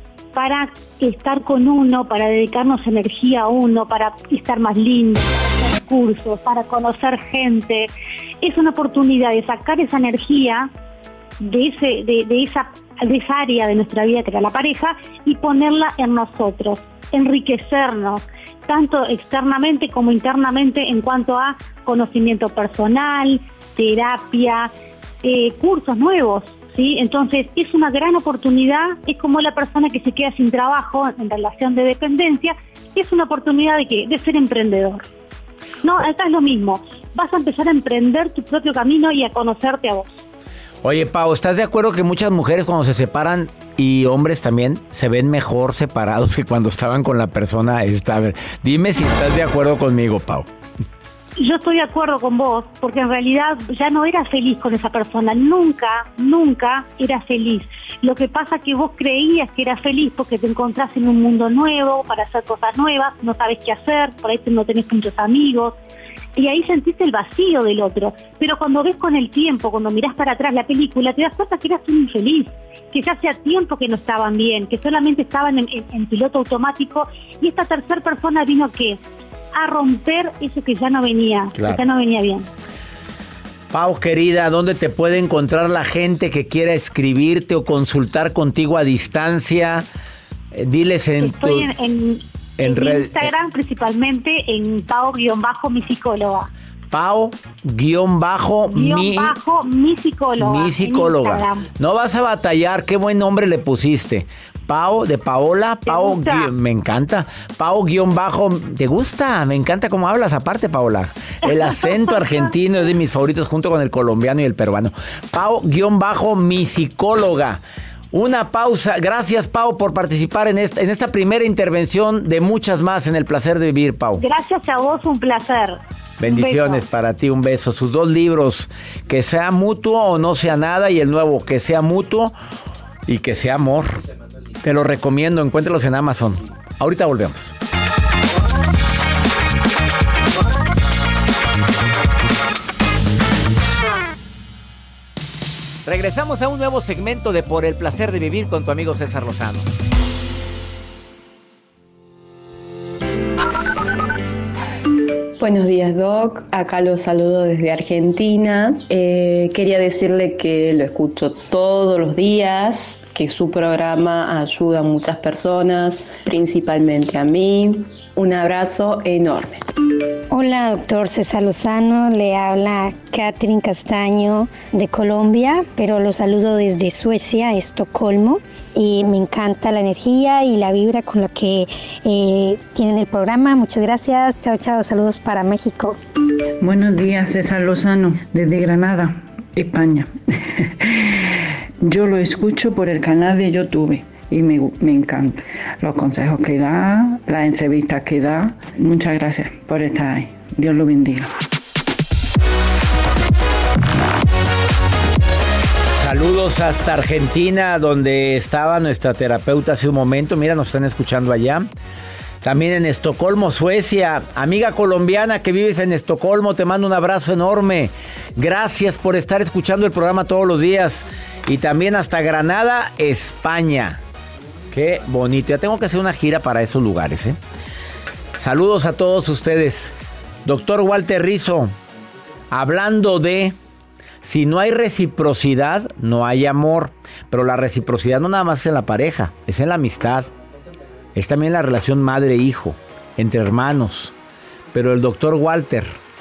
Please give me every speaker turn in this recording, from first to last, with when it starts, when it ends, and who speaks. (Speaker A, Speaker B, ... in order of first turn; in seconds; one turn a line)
Speaker A: 0.3-7.9
Speaker A: 8.4-10.7
Speaker A: 11.4-24.7
Speaker A: 25.2-35.0
Speaker A: 35.8-40.2
Speaker B: 40.8-50.5
Speaker A: 51.4-65.8
Speaker A: 66.4-79.0
Speaker A: 79.5-82.5
Speaker B: 81.6-81.8
Speaker B: 83.7-89.9
Speaker B: 90.5-91.7
Speaker A: 91.2-96.5
Speaker B: 92.6-93.3
Speaker B: 96.9-99.4
Speaker A: 98.7-101.7
Speaker B: 100.4-117.6
Speaker A: 105.9-106.5
Speaker B: 118.1-124.2
Speaker A: 124.2-126.8
Speaker B: 126.2-132.3
Speaker B: 133.1-134.0
Speaker B: 134.6-137.6
Speaker B: 145.8-149.7
Speaker C: 155.4-169.6
Speaker D: 170.3-186.0
Speaker E: 186.6-201.3
Speaker B: 206.0-211.7
Speaker B: 212.4-224.0
Speaker B: 224.7-227.4
Speaker B: 228.3-231.7
Speaker B: 232.5-233.6
Speaker B: 234.2-240.3
Speaker B: 241.2-244.1
Speaker B: 244.7-245.9